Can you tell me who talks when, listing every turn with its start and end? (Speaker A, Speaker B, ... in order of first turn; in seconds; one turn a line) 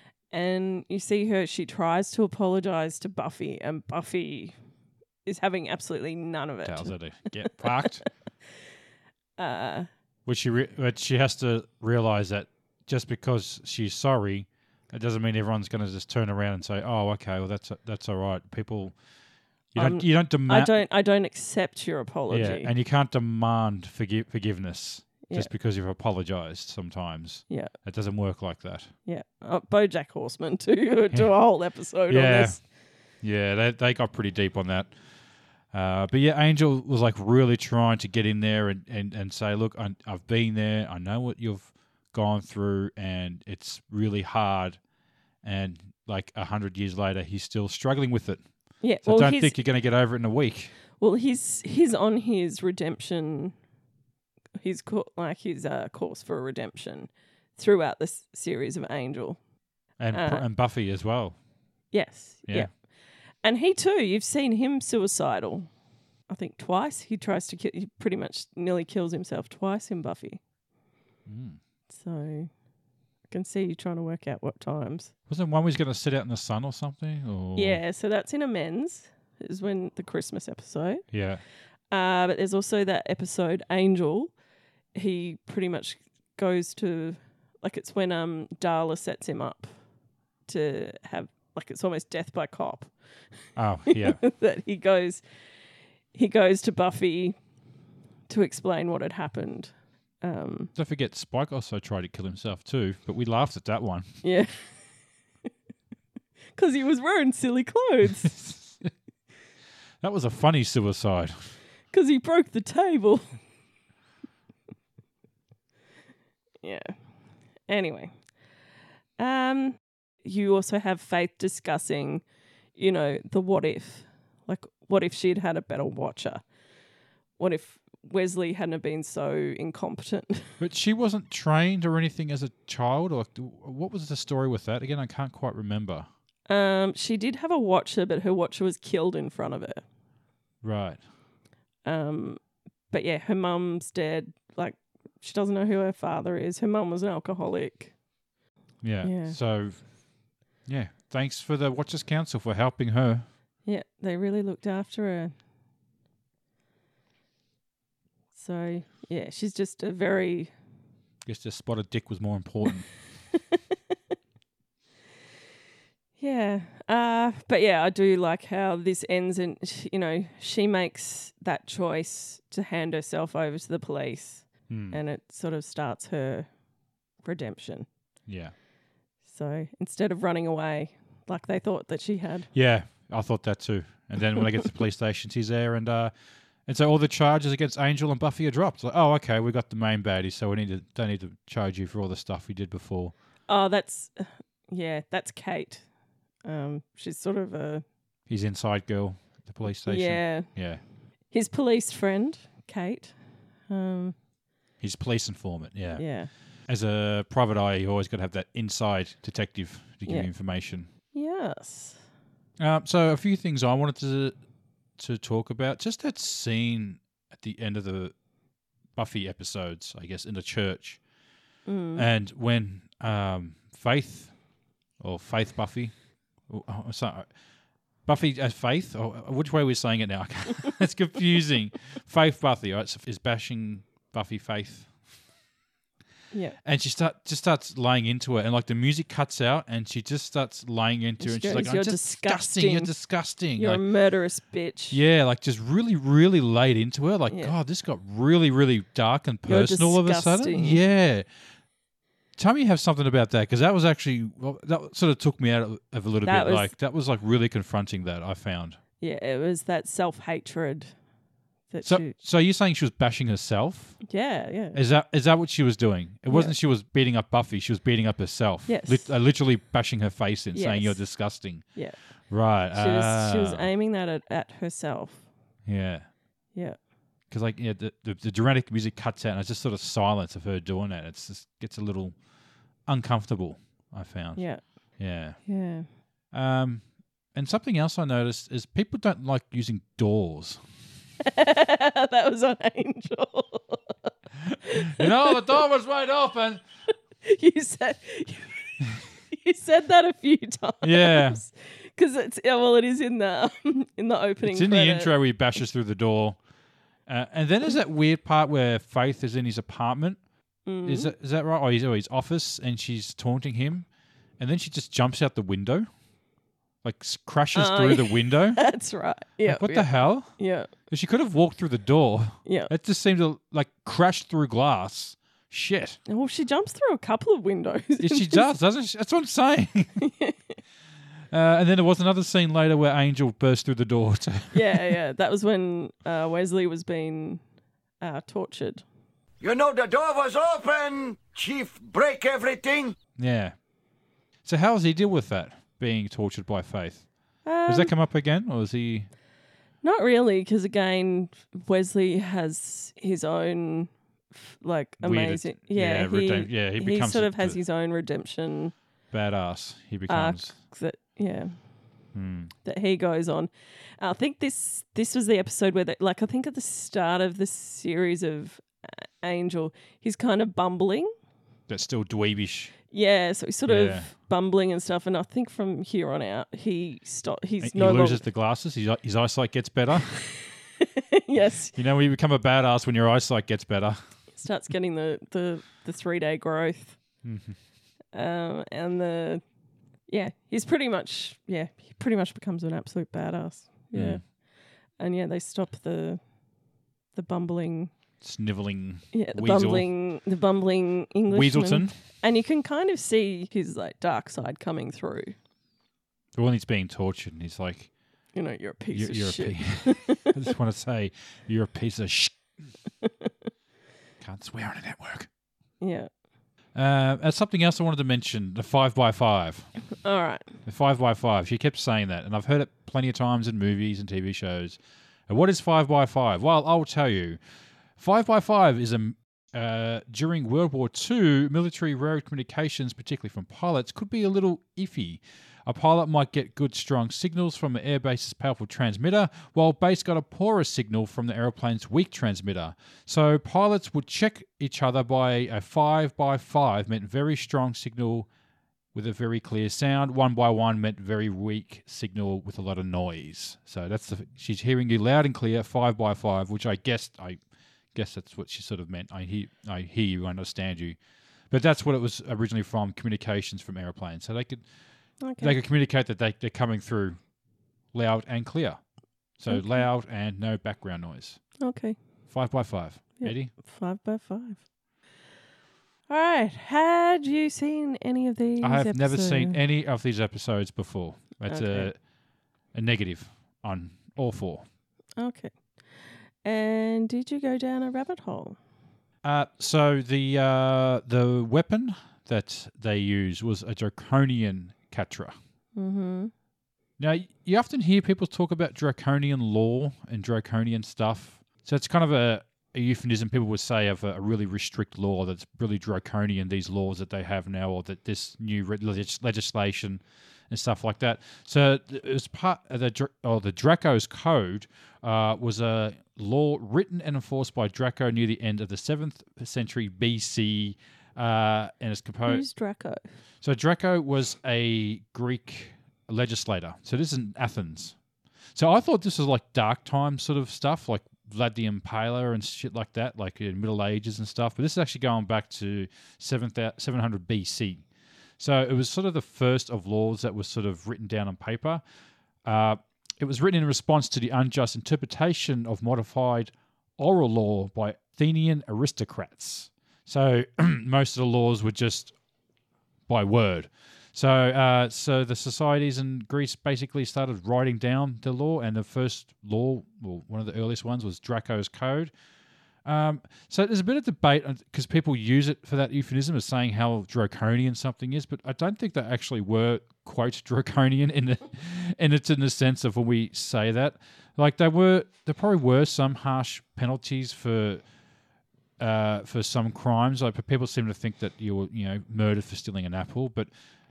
Speaker A: 0.3-4.5
Speaker A: 5.2-7.9
Speaker B: 6.7-8.0
Speaker A: 9.4-9.9
Speaker B: 10.3-18.9
Speaker B: 19.7-20.8
Speaker A: 19.8-22.7
Speaker B: 22.3-28.9
Speaker A: 25.3-25.5
Speaker A: 29.1-32.6
Speaker B: 32.1-32.6
Speaker B: 33.2-34.9
Speaker B: 35.7-44.8
Speaker B: 45.4-50.7
Speaker A: 48.8-49.5
Speaker A: 51.0-53.5
Speaker A: 54.6-59.4
Speaker B: 60.0-61.4
Speaker A: 60.1-60.5
Speaker A: 61.9-62.7
Speaker A: 63.4-65.7
Speaker A: 66.3-70.4
Speaker B: 71.3-71.6
Speaker A: 71.9-72.5
Speaker A: 73.3-75.1
Speaker B: 75.3-77.8
Speaker A: 77.6-81.0
Speaker B: 81.1-81.4
Speaker A: 81.9-84.3
Speaker A: 85.0-89.7
Speaker A: 90.5-92.9
Speaker B: 93.6-94.2
Speaker A: 93.9-95.2
Speaker A: 96.1-97.4
Speaker A: 98.3-100.7
Speaker B: 100.8-104.1
Speaker A: 104.2-104.7
Speaker A: 106.6-108.4
Speaker B: 108.3-108.7
Speaker B: 110.0-111.5
Speaker A: 111.9-113.4
Speaker A: 116.6-117.0
Speaker A: 117.7-118.1
Speaker A: 119.2-122.2
Speaker A: 122.8-126.4
Speaker A: 127.4-130.5
Speaker B: 130.6-136.1
Speaker A: 136.5-139.8
Speaker B: 140.6-141.0
Speaker A: 141.8-142.4
Speaker A: 142.9-147.9
Speaker B: 148.8-149.9
Speaker A: 149.0-149.4
Speaker B: 150.7-153.2
Speaker A: 153.7-155.3
Speaker A: 158.3-160.5
Speaker B: 161.2-162.9
Speaker A: 166.2-176.5
Speaker B: 174.7-175.0
Speaker A: 177.2-177.9
Speaker B: 178.3-178.5
Speaker A: 179.3-182.5
Speaker B: 182.5-186.1
Speaker B: 186.7-193.1
Speaker A: 193.5-195.8
Speaker A: 196.4-197.8
Speaker B: 198.3-200.8
Speaker A: 199.8-200.5
Speaker A: 201.3-203.2
Speaker A: 203.7-204.2
Speaker B: 204.8-206.1
Speaker A: 206.0-206.3
Speaker B: 206.7-210.9
Speaker A: 211.1-212.0
Speaker B: 212.6-214.4
Speaker B: 215.0-218.1
Speaker B: 218.9-221.0
Speaker A: 221.7-222.1
Speaker B: 221.9-224.4
Speaker B: 225.0-225.9
Speaker B: 226.5-227.3
Speaker B: 228.1-234.9
Speaker A: 236.3-236.6
Speaker B: 236.6-243.8
Speaker A: 241.2-242.9
Speaker A: 243.6-245.0
Speaker B: 244.9-251.3
Speaker A: 249.5-250.8
Speaker B: 252.4-258.8
Speaker A: 256.2-256.7
Speaker A: 259.0-260.9
Speaker A: 261.7-262.1
Speaker B: 261.8-264.0
Speaker A: 264.1-264.8
Speaker B: 264.7-271.7
Speaker A: 266.3-266.6
Speaker A: 268.7-269.1
Speaker A: 270.5-271.0
Speaker B: 272.3-273.7
Speaker A: 272.7-275.2
Speaker B: 275.7-276.1
Speaker B: 277.3-282.2
Speaker B: 282.9-284.5
Speaker A: 284.4-284.6
Speaker B: 285.0-285.4
Speaker A: 285.4-285.9
Speaker B: 286.3-290.6
Speaker A: 291.2-294.1
Speaker B: 294.5-296.6
Speaker A: 294.7-295.4
Speaker A: 297.2-305.1
Speaker B: 300.8-301.4
Speaker B: 304.4-306.4
Speaker B: 307.1-310.2
Speaker A: 310.7-311.1
Speaker B: 310.9-313.9
Speaker B: 314.4-315.9
Speaker B: 316.8-318.6
Speaker A: 317.6-320.7
Speaker B: 319.4-326.0
Speaker A: 322.4-322.7
Speaker A: 326.1-328.4
Speaker B: 328.0-330.0
Speaker A: 330.0-330.6
Speaker B: 331.3-334.8
Speaker A: 334.5-337.4
Speaker A: 338.0-338.8
Speaker C: 339.4-343.0
Speaker B: 343.2-343.6
Speaker B: 344.4-349.1
Speaker A: 347.4-347.9
Speaker A: 349.8-358.7
Speaker B: 355.0-357.6
Speaker B: 359.1-360.6
Speaker A: 360.1-361.6
Speaker B: 362.1-362.5
Speaker A: 362.6-371.1
Speaker B: 371.7-372.7
Speaker A: 372.9-378.2
Speaker B: 373.7-374.1
Speaker B: 377.6-380.1
Speaker A: 380.8-381.7
Speaker B: 381.7-384.0
Speaker A: 384.4-387.0
Speaker B: 387.2-387.6
Speaker A: 388.1-389.4
Speaker A: 390.1-394.2
Speaker B: 393.9-394.2
Speaker A: 395.0-396.2
Speaker A: 397.1-397.9
Speaker B: 398.2-399.9
Speaker A: 399.1-405.4
Speaker B: 401.3-402.0
Speaker B: 406.4-407.9
Speaker A: 408.3-410.3
Speaker B: 408.9-412.7
Speaker A: 413.0-413.3
Speaker B: 414.2-415.3
Speaker A: 415.8-416.1
Speaker B: 416.8-419.7
Speaker A: 420.0-420.5
Speaker B: 420.6-427.4
Speaker B: 428.0-448.3
Speaker B: 448.9-457.4
Speaker B: 457.9-461.0
Speaker B: 461.5-464.6
Speaker A: 465.2-465.6
Speaker B: 465.3-467.2
Speaker B: 467.9-468.8
Speaker B: 469.4-471.4
Speaker A: 469.5-469.8
Speaker A: 471.6-472.0
Speaker B: 472.3-473.5
Speaker A: 473.2-474.6
Speaker A: 476.1-479.6
Speaker B: 478.6-482.0
Speaker A: 481.5-481.9
Speaker B: 482.7-484.6
Speaker A: 485.2-488.6
Speaker B: 489.2-495.4
Speaker A: 495.8-496.3
Speaker B: 497.0-522.5
Speaker A: 522.3-523.1
Speaker B: 523.4-528.0
Speaker B: 528.5-537.9
Speaker B: 538.4-541.8
Speaker B: 542.5-552.1
Speaker B: 553.1-562.1
Speaker B: 562.9-577.8
Speaker B: 578.8-583.5